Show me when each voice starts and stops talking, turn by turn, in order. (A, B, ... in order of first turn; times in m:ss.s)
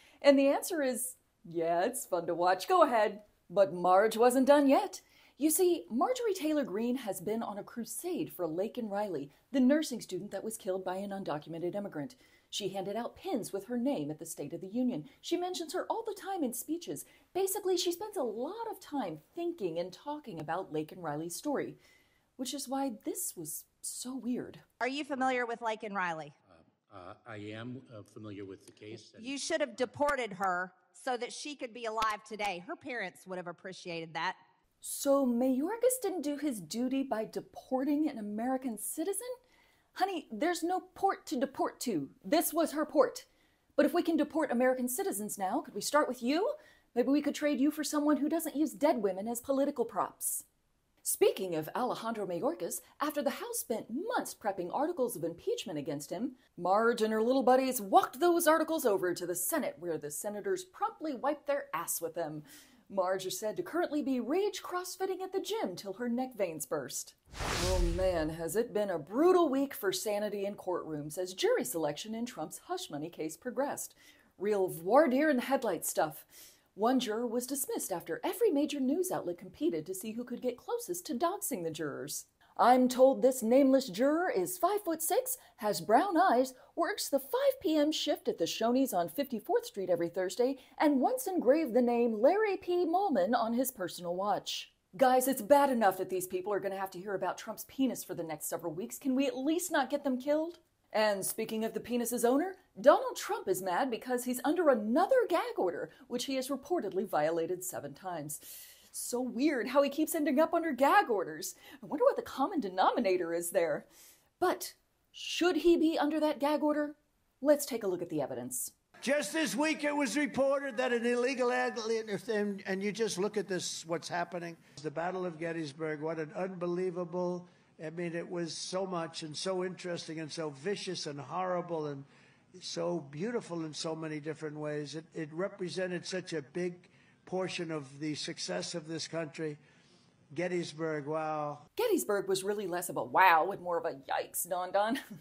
0:00.2-0:21.8 A
0:22.4-0:24.6 A
0:24.8-0:26.3 B
0:25.1-0:25.3 C
0:26.5-0:29.9 C
0:29.2-0:34.4 B
0:34.8-0:39.3 A
0:39.9-0:50.4 A
0:51.0-1:53.9 A
1:54.4-1:58.7 A
1:59.0-2:12.0 D
2:12.6-2:19.6 D
2:20.3-2:21.6 D
2:21.8-2:25.0 A